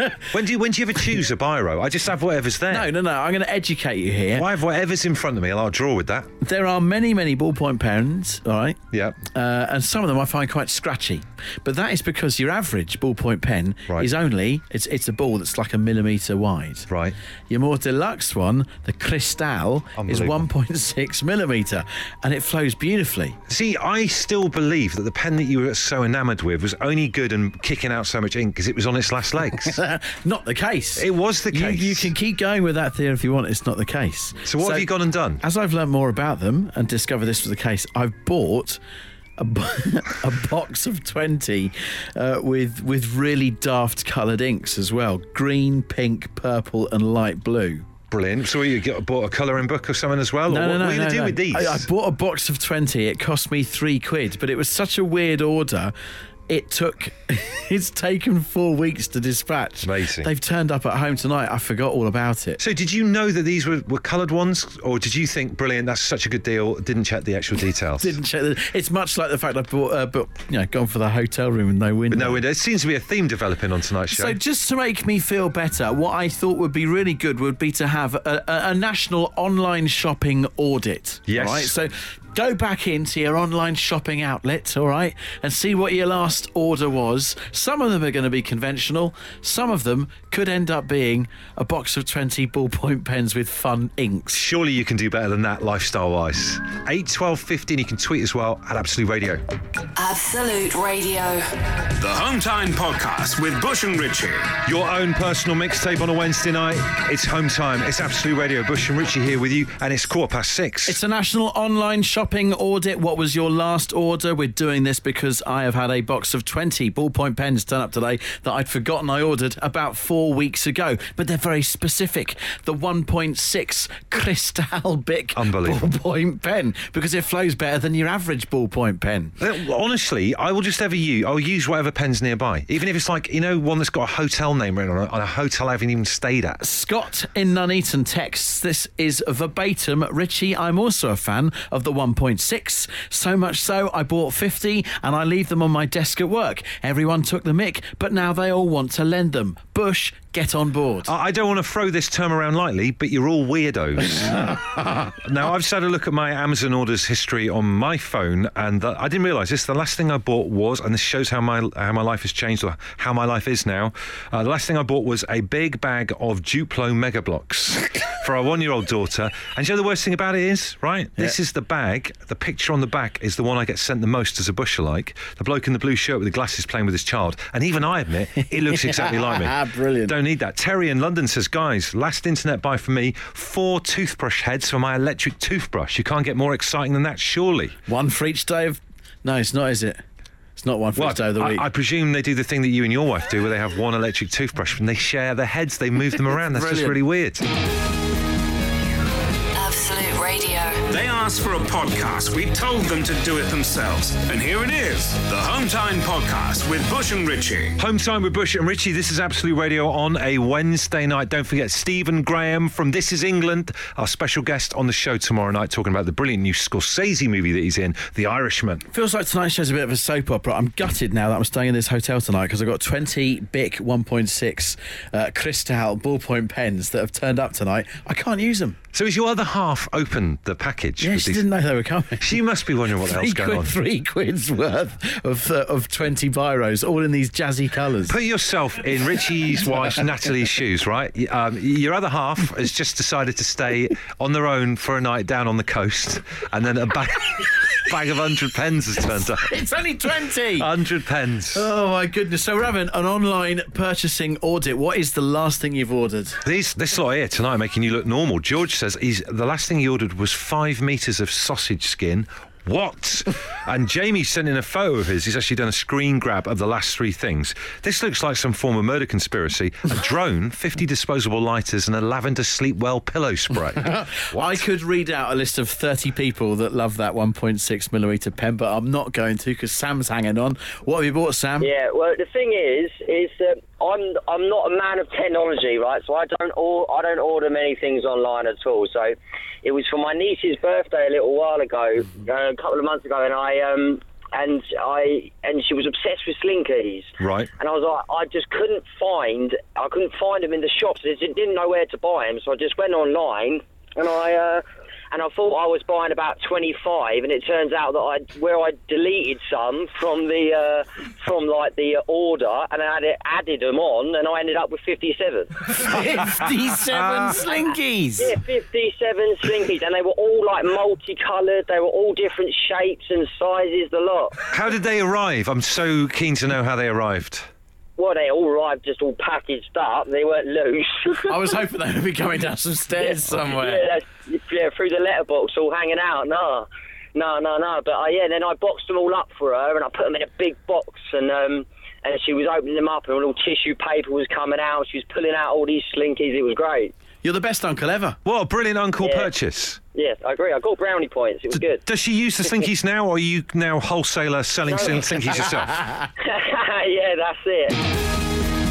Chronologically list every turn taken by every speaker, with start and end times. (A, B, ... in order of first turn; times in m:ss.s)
0:00.1-0:02.9 A
0:02.7-0:04.5 B
0:04.3-0:06.3 A
0:06.4-0:16.9 B
0:08.9-0:09.2 A
0:16.9-0:17.2 A
0:17.5-0:23.4 B
0:20.0-0:20.4 A
0:23.5-0:29.8 A
0:29.7-0:38.8 B
0:31.0-0:32.1 A
0:34.4-0:35.4 A
0:39.4-0:47.9 B
0:48.1-0:51.9 A
0:50.5-0:55.9 B
0:56.5-1:02.6 B
0:59.8-1:00.3 A
1:02.6-1:08.2 A
1:08.0-1:12.5 B
1:12.1-1:14.4 A
1:14.1-1:34.4 B
1:21.3-1:21.7 A
1:34.3-1:39.4 A
1:40.0-1:41.5 C
1:42.0-1:44.5 D
1:44.7-1:51.0 A
1:50.9-2:09.3 B
2:05.4-2:05.9 A
2:09.4-2:16.6 A
2:16.6-2:31.1 B
2:31.0-3:07.8 A
2:58.5-3:00.2 B
3:07.9-3:10.0 B
3:10.6-3:11.7 B
3:11.0-3:17.4 A
3:16.2-3:17.0 B
3:19.6-3:20.8 C
3:20.9-3:27.8 D
3:27.8-3:38.9 A
3:38.9-3:48.8 B
3:48.9-3:51.4 A
3:51.0-3:58.2 B
3:52.2-3:53.7 A
3:58.1-4:09.5 A
4:09.3-4:10.7 B
4:10.6-4:11.7 A
4:11.5-4:16.4 B
4:16.4-4:34.6 A
4:33.8-4:41.7 B
4:41.6-5:15.7 E
4:57.2-4:57.5 A
5:15.7-5:18.4 B
5:16.9-5:17.4 A
5:18.2-5:24.4 E
5:24.5-5:27.5 A
5:28.0-5:31.4 E
5:31.1-5:33.9 B
5:33.0-5:46.9 E
5:47.2-5:48.2 B
5:48.2-5:49.8 A
5:49.0-5:49.3 E
5:49.9-5:51.8 E
5:51.5-5:55.8 A
5:54.7-5:55.5 E
5:56.2-5:57.8 E